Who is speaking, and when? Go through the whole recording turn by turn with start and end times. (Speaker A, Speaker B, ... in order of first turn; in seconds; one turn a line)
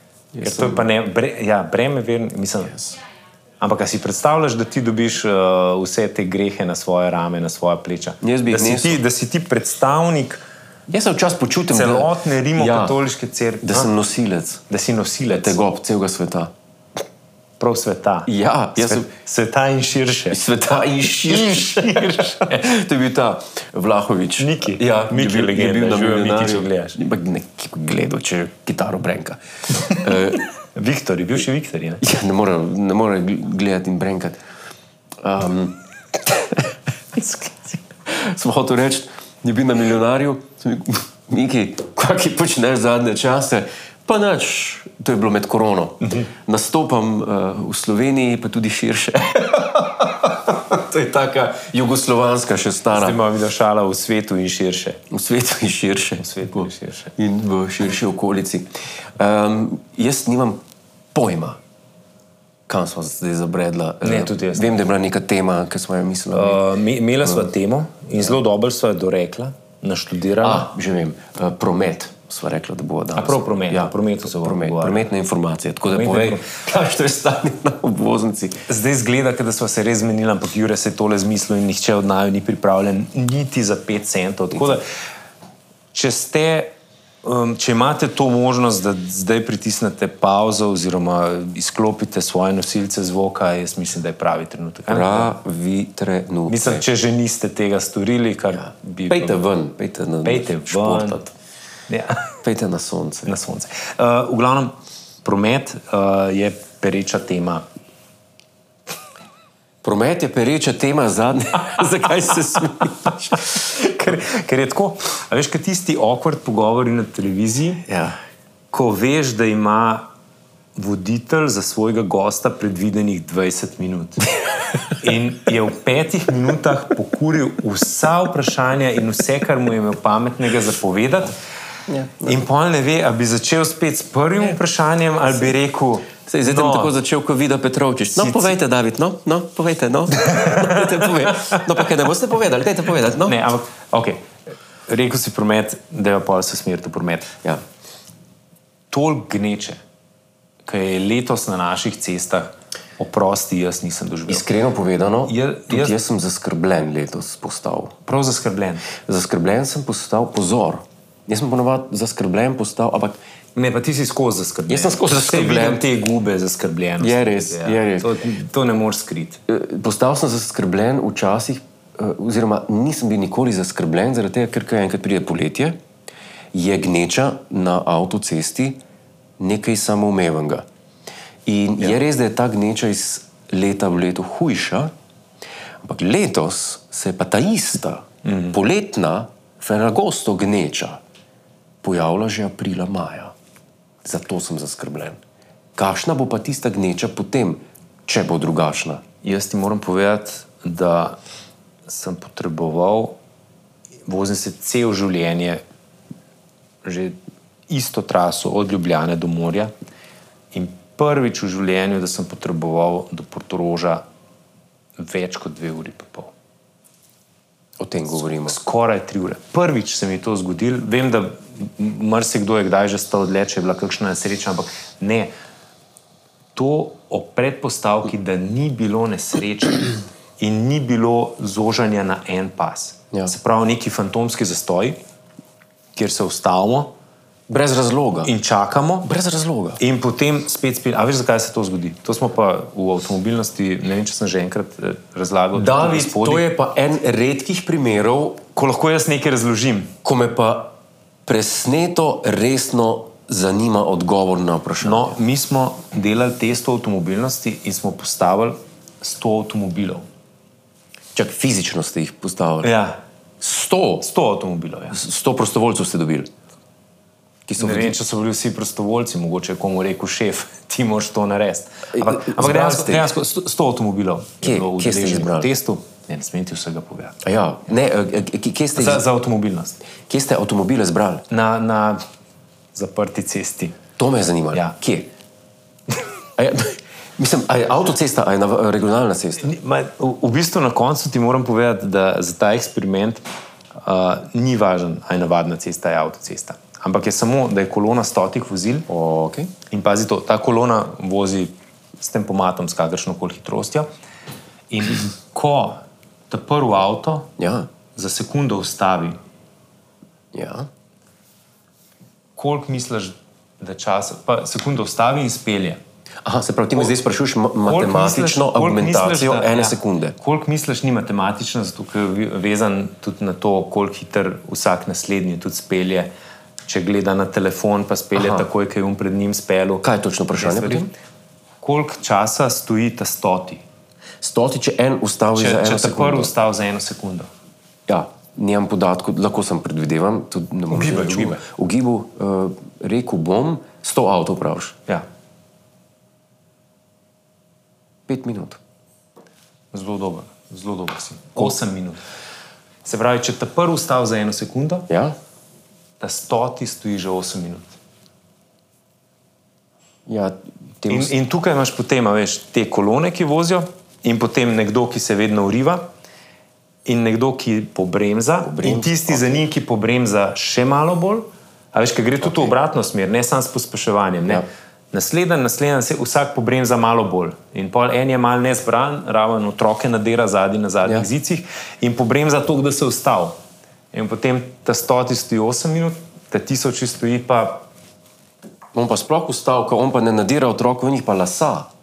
Speaker A: 0.3-0.9
Speaker B: 0.4-2.9
Speaker B: 3.6-10.4
Speaker A: 8.2-9.0
Speaker A: 10.9-13.0
Speaker B: 11.7-13.9
Speaker A: 13.6-14.6
Speaker B: 14.7-15.6
Speaker A: 15.3-16.5
Speaker B: 17.6-20.4
Speaker A: 18.3-19.1
Speaker A: 20.3-29.4
Speaker B: 21.2-22.4
Speaker B: 24.4-27.0
Speaker A: 29.9-30.4
Speaker B: 30.7-32.0
Speaker A: 32.0-34.4
Speaker A: 35.2-53.2
Speaker B: 46.0-46.3
Speaker B: 52.9-55.0
Speaker A: 55.1-60.6
Speaker B: 56.2-57.1
Speaker A: 61.1-61.6
Speaker A: 62.7-66.6
Speaker B: 64.0-64.8
Speaker B: 66.3-70.7
Speaker A: 70.4-78.6
Speaker B: 73.1-75.0
Speaker B: 75.9-76.4
Speaker B: 78.7-84.8
Speaker B: 85.9-86.7
Speaker B: 87.2-95.3
Speaker A: 94.9-96.8
Speaker B: 96.5-99.4
Speaker A: 99.1-101.3
Speaker B: 100.2-101.3
Speaker B: 101.9-102.3
Speaker A: 102.4-103.3
Speaker B: 103.2-104.7
Speaker B: 105.2-107.6
Speaker A: 109.8-113.4
Speaker B: 113.5-117.8
Speaker A: 117.9-118.2
Speaker B: 118.7-120.1
Speaker B: 120.8-124.2
Speaker B: 124.9-131.3
Speaker A: 131.9-132.4
Speaker B: 132.2-136.9
Speaker A: 136.3-143.4
Speaker B: 138.1-138.5
Speaker B: 140.2-141.6
Speaker B: 143.2-144.3
Speaker B: 144.9-147.4
Speaker B: 148.9-149.8
Speaker B: 150.7-154.5
Speaker A: 154.3-158.0
Speaker B: 155.2-156.0
Speaker B: 158.1-158.9
Speaker A: 159.1-163.2
Speaker B: 163.6-169.4
Speaker A: 164.7-165.8
Speaker A: 167.0-168.1
Speaker A: 169.5-175.8
Speaker A: 176.5-178.8
Speaker A: 179.4-180.6
Speaker A: 181.4-184.9
Speaker A: 185.8-191.0
Speaker B: 188.2-188.5
Speaker A: 191.8-193.3
Speaker A: 194.0-195.2
Speaker A: 195.8-199.0
Speaker B: 199.2-201.2
Speaker B: 201.8-203.2
Speaker B: 204.1-205.6
Speaker B: 206.8-207.2
Speaker B: 207.7-209.7
Speaker B: 210.5-214.0
Speaker B: 215.0-216.3
Speaker A: 217.8-218.6
Speaker B: 218.1-225.3
Speaker B: 226.5-235.0
Speaker B: 235.9-236.9
Speaker A: 237.5-238.3
Speaker B: 238.2-239.1
Speaker A: 239.0-239.8
Speaker B: 239.8-246.4
Speaker A: 245.5-248.4
Speaker B: 248.5-249.9
Speaker A: 250.0-250.7
Speaker A: 251.2-255.2
Speaker B: 254.8-260.0
Speaker A: 261.1-262.7
Speaker B: 262.6-263.0
Speaker A: 263.4-264.1
Speaker B: 264.0-265.0
Speaker A: 264.9-266.3
Speaker A: 267.4-268.0
Speaker B: 267.6-277.1
Speaker A: 271.9-273.1
Speaker A: 274.4-275.5
Speaker A: 277.2-279.0
Speaker B: 278.7-279.8
Speaker A: 280.1-281.2
Speaker B: 281.3-282.0
Speaker B: 282.7-283.8
Speaker A: 284.0-285.1
Speaker A: 286.4-289.5
Speaker B: 289.4-293.2
Speaker B: 293.8-298.9
Speaker A: 298.9-299.5
Speaker B: 299.7-303.9
Speaker B: 304.7-305.8
Speaker B: 306.3-307.3
Speaker A: 307.4-307.7
Speaker B: 307.9-309.1
Speaker A: 310.3-310.7
Speaker B: 312.4-315.8
Speaker A: 316.2-320.1
Speaker B: 317.6-326.1
Speaker B: 326.6-329.8
Speaker A: 328.1-328.5
Speaker A: 329.8-330.9
Speaker B: 330.4-330.9
Speaker B: 331.6-333.6
Speaker A: 334.2-336.3
Speaker B: 335.3-337.3
Speaker A: 337.9-344.8
Speaker B: 340.7-341.4
Speaker A: 348.1-348.6
Speaker B: 349.7-352.0
Speaker B: 352.8-354.9
Speaker A: 354.9-355.1
Speaker B: 356.0-357.8
Speaker A: 360.1-361.1
Speaker B: 360.9-365.8
Speaker B: 366.9-383.4
Speaker A: 368.4-369.4
Speaker A: 372.2-372.5
Speaker B: 383.9-387.6
Speaker A: 388.7-391.7